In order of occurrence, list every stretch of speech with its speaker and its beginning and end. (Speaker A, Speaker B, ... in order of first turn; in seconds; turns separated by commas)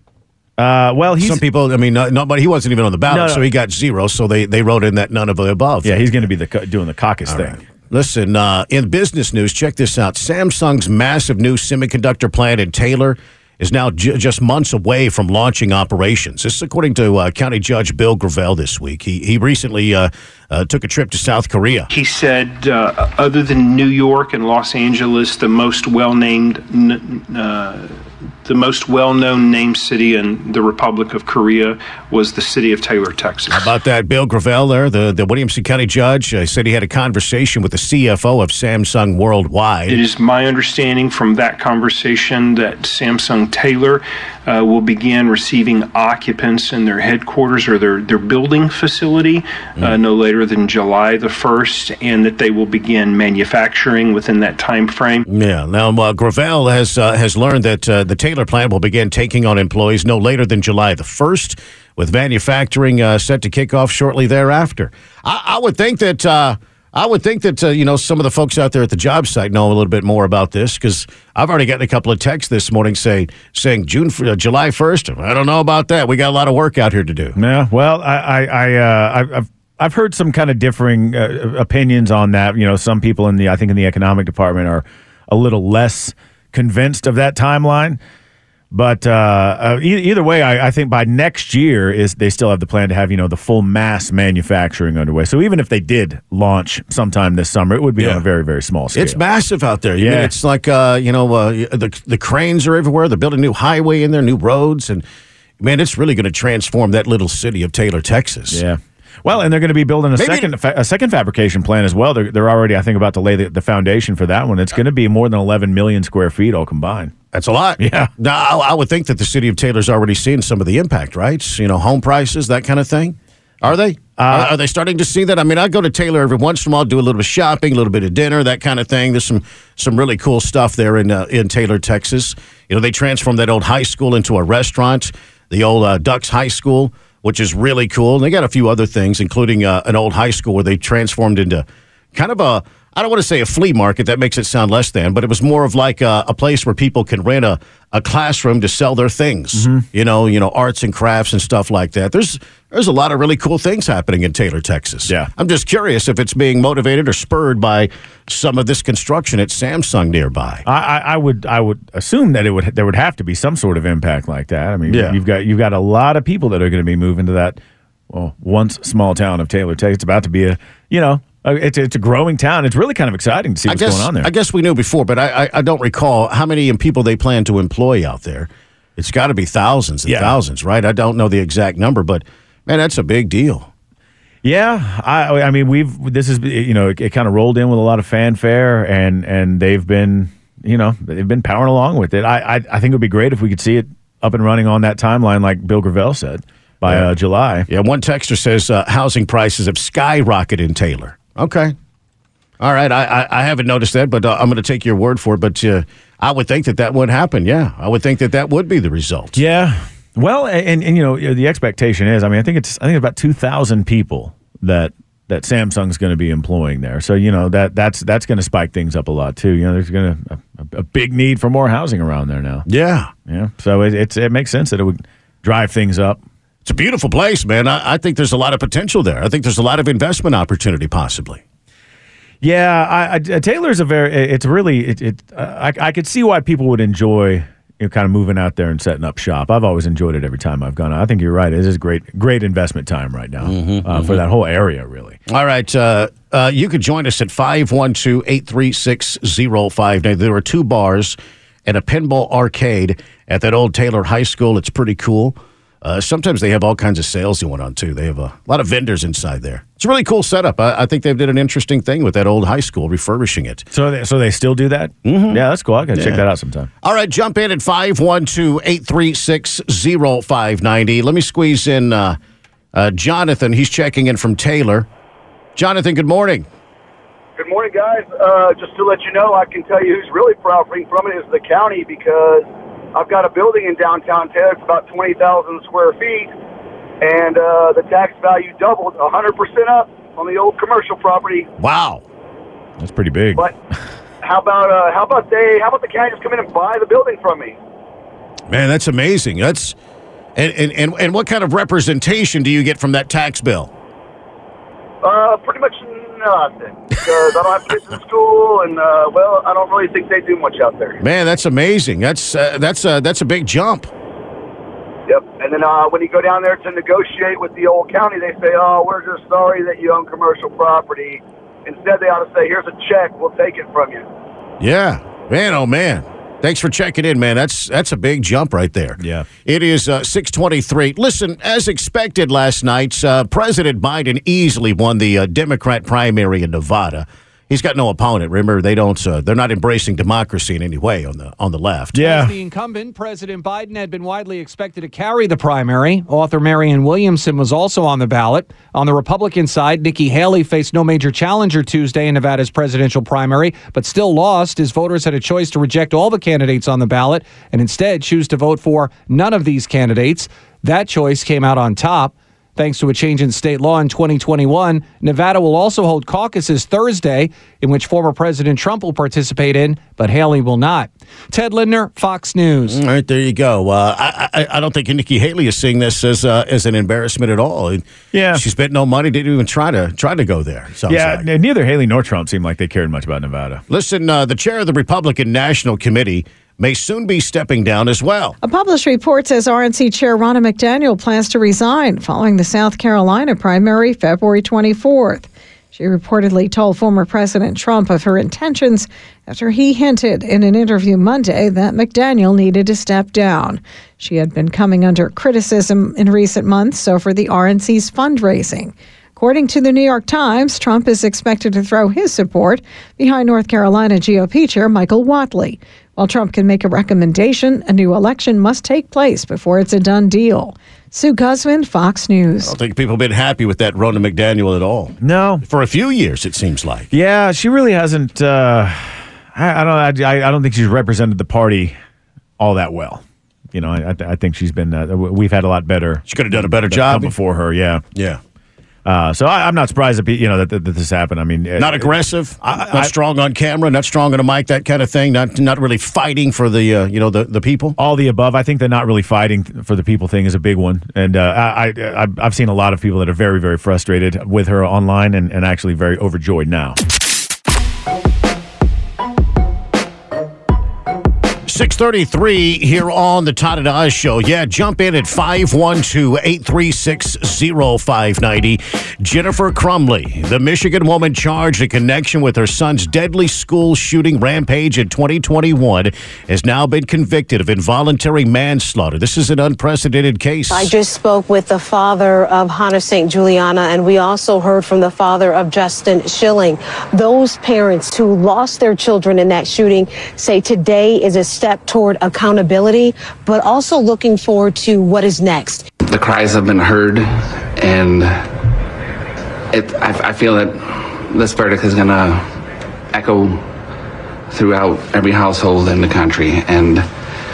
Speaker A: 0.6-1.4, Speaker B: 1.2-6.0, Speaker A: 3.1-3.5, Speaker A: 5.8-7.6, Speaker B: 7.3-21.9, Speaker C: 21.9-33.7, Speaker B: 33.5-40.0, Speaker C: 39.9-55.2, Speaker B: 55.3-77.3, Speaker A: 77.3-88.0, Speaker A: 88.7-99.2, Speaker B: 98.9-105.0, Speaker A: 100.0-100.3, Speaker B: 105.6-108.6, Speaker A: 108.5-117.1, Speaker B: 110.2-110.5, Speaker B: 117.3-160.6, Speaker A: 117.8-118.1, Speaker A: 124.2-124.5, Speaker A: 149.5-149.9, Speaker A: 160.7-167.6, Speaker B: 164.9-165.2, Speaker A: 168.1-174.3, Speaker B: 173.7-183.7, Speaker A: 180.0-180.3, Speaker A: 184.4-197.7, Speaker B: 196.8-197.1, Speaker B: 197.7-201.7, Speaker B: 202.6-209.4, Speaker A: 209.3-222.7, Speaker B: 222.7-223.1, Speaker A: 223.3-226.2, Speaker B: 226.6-231.4, Speaker A: 232.4-245.2, Speaker B: 243.4-244.2, Speaker B: 245.3-263.6, Speaker A: 263.7-266.7, Speaker B: 265.1-265.4, Speaker B: 265.9-266.2, Speaker B: 266.8-272.2, Speaker B: 272.7-274.9, Speaker B: 275.6-276.5, Speaker D: 277.4-286.3, Speaker D: 287.0-291.5, Speaker B: 291.6-292.0, Speaker A: 292.8-293.5, Speaker D: 294.2-297.6, Speaker B: 298.5-299.8, Speaker B: 300.4-303.7, Speaker D: 305.0-311.0, Speaker B: 311.0-313.9, Speaker D: 315.1-324.0, Speaker B: 324.6-342.1, Speaker A: 329.0-329.3, Speaker A: 341.9-342.3, Speaker E: 342.0-372.8, Speaker B: 372.6-377.8, Speaker A: 378.1-378.4, Speaker B: 378.3-381.2, Speaker A: 380.9-383.6, Speaker B: 383.7-388.4, Speaker F: 388.4-422.5, Speaker B: 422.4-426.9, Speaker A: 425.0-425.4, Speaker A: 426.9-431.7, Speaker A: 432.4-433.0, Speaker A: 433.5-437.8, Speaker B: 436.1-437.1, Speaker B: 437.9-438.2, Speaker A: 438.9-442.9, Speaker B: 441.6-447.8, Speaker A: 447.8-456.8, Speaker B: 461.5-480.7, Speaker G: 480.5-495.6, Speaker H: 495.9-498.3, Speaker H: 499.5-502.4, Speaker H: 502.9-503.5, Speaker H: 504.3-506.9